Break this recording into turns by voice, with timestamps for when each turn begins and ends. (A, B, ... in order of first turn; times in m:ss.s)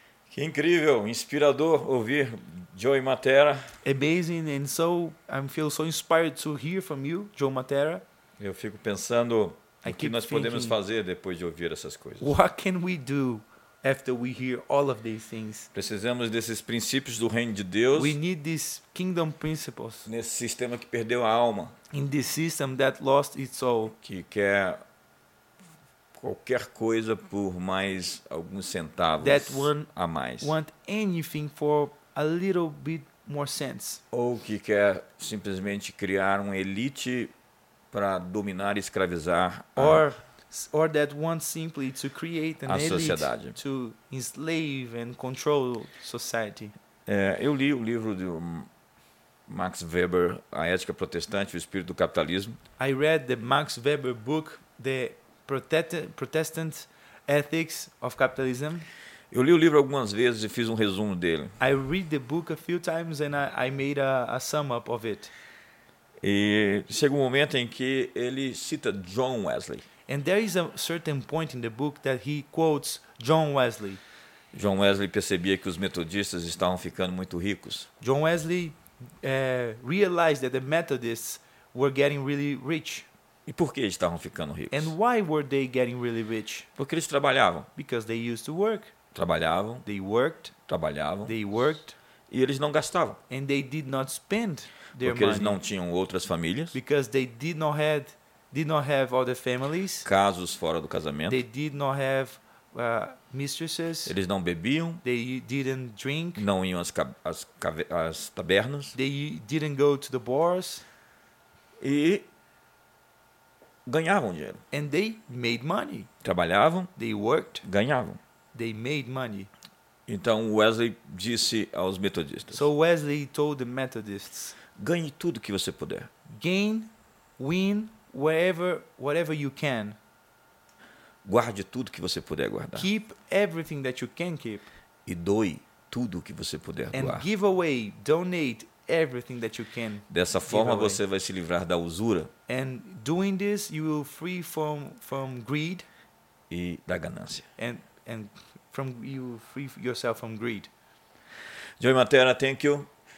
0:00.3-0:03.7 A
0:03.8-0:08.0 B
0:08.4-0:12.3 A
0:09.8-0:10.8 B
0:12.2-0:15.7 B
0:15.7-0:18.2 A
0:18.0-0:20.1 B
0:20.1-0:21.8 A
0:21.9-0:24.0 B
0:24.0-0:24.8 A
0:26.2-0:30.6 A
0:29.2-0:29.9 B
0:30.4-0:34.0 B
0:34.1-0:37.3 A
0:37.9-0:40.0 A
0:39.8-0:46.7 B
0:42.7-0:43.6 A
0:47.1-0:48.7 A
0:49.5-0:52.6 A
0:52.8-0:58.9 B
0:59.3-1:01.6 A
1:01.6-1:05.3 B
1:06.2-1:09.8 A
1:10.1-1:14.0 B
1:14.5-1:17.9 A
1:18.0-1:23.1 B
1:23.5-1:24.9 A
1:24.7-1:26.7 B
1:26.8-1:27.7 A
1:27.8-1:28.9 B
1:29.2-1:29.9 A
1:29.8-1:30.5 B
1:30.7-1:31.4 A
1:31.2-1:32.0 B
1:32.3-1:33.2 A
1:33.3-1:35.6 B
1:35.0-1:36.8 A
1:36.7-1:40.1 B
1:40.0-1:41.4 A
1:41.3-1:44.2 B
1:44.1-1:45.0 A
1:45.0-1:46.4 B
1:46.4-1:49.0 A
1:49.0-1:50.8 B
1:51.8-1:52.3 A
1:53.9-1:54.6 A
1:54.7-1:56.1 B
1:56.2-1:56.9 A
1:57.0-1:57.6 B
1:57.6-1:58.2 A
1:58.5-1:59.5 B
2:00.1-2:02.7 A
2:02.5-2:04.5 B
2:04.8-2:06.1 A
2:06.3-2:10.0 B
2:11.2-2:12.9 A
2:12.8-2:14.7 B
2:15.1-2:17.3 A
2:16.9-2:21.0 B
2:20.1-2:22.3 A
2:22.5-2:25.9 B
2:26.5-2:27.5 A
2:27.6-2:30.7 B
2:31.8-2:32.9 A